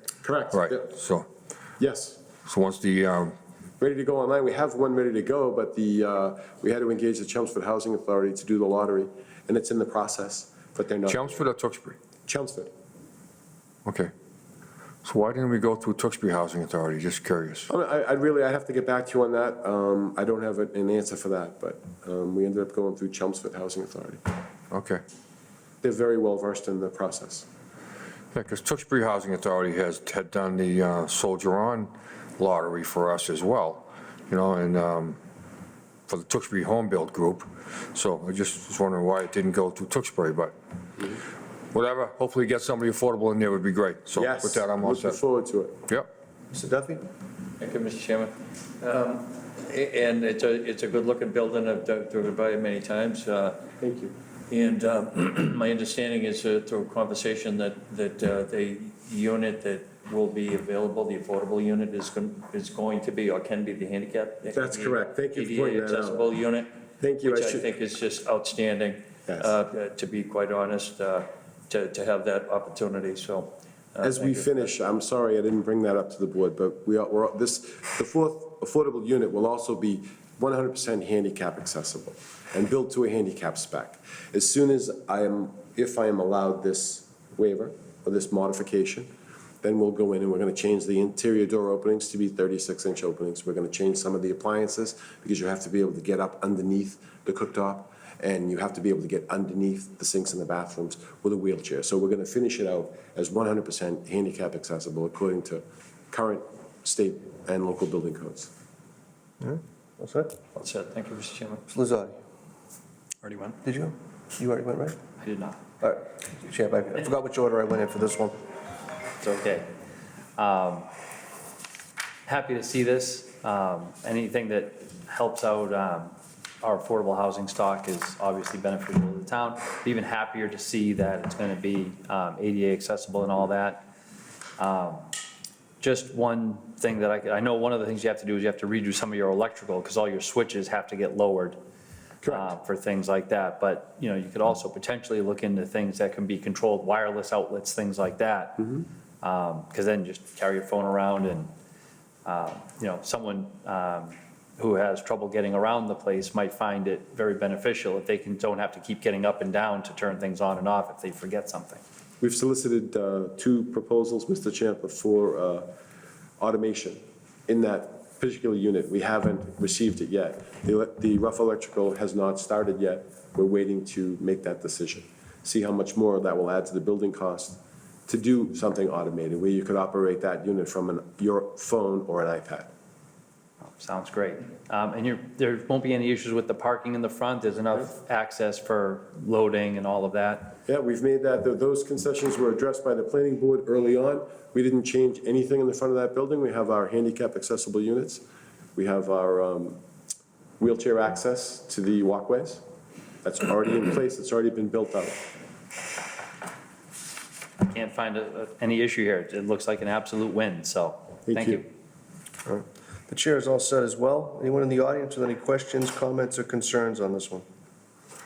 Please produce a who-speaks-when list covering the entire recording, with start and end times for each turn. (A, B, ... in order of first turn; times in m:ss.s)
0:00.2-0:00.9 A
0:00.5-0:01.3 B
0:01.8-0:02.2 A
0:02.4-0:03.3 B
0:03.8-0:11.4 A
0:11.1-0:12.0 B
0:12.2-0:12.7 A
0:13.8-0:14.1 B
0:15.0-0:17.7 B
0:17.7-0:24.2 A
0:24.7-0:25.0 B
0:25.8-0:27.4 A
0:28.3-0:35.2 B
0:36.1-0:40.5 B
0:41.7-0:45.2 B
0:44.1-0:45.8 A
0:46.5-0:47.0 C
0:47.6-0:53.7 D
0:53.8-0:54.1 A
0:54.5-1:06.7 D
1:04.5-1:06.3 A
1:07.0-1:07.7 A
1:07.2-1:14.7 D
1:14.0-1:29.1 A
1:29.6-1:48.5 A
1:49.4-1:50.4 C
1:50.5-1:51.6 D
1:51.7-1:52.1 C
1:53.2-1:53.6 D
1:53.6-1:55.0 C
1:55.2-1:55.6 E
1:55.8-1:58.3 C
1:59.2-1:59.7 E
2:00.4-2:00.9 E
2:02.2-2:13.8 E
2:14.6-2:15.1 E
2:15.8-2:21.6 E
2:22.2-2:22.5 A
2:22.2-2:31.5 E
2:32.2-2:41.8 E
2:42.2-2:45.7 A
2:46.4-3:02.7 A
3:03.7-3:10.6 E
3:10.6-3:18.2 A
3:18.8-3:19.8 A
3:20.6-3:22.6 A
3:23.2-3:25.2 A
3:27.6-3:31.7 E
3:31.3-3:31.6 A
3:32.4-3:37.4 C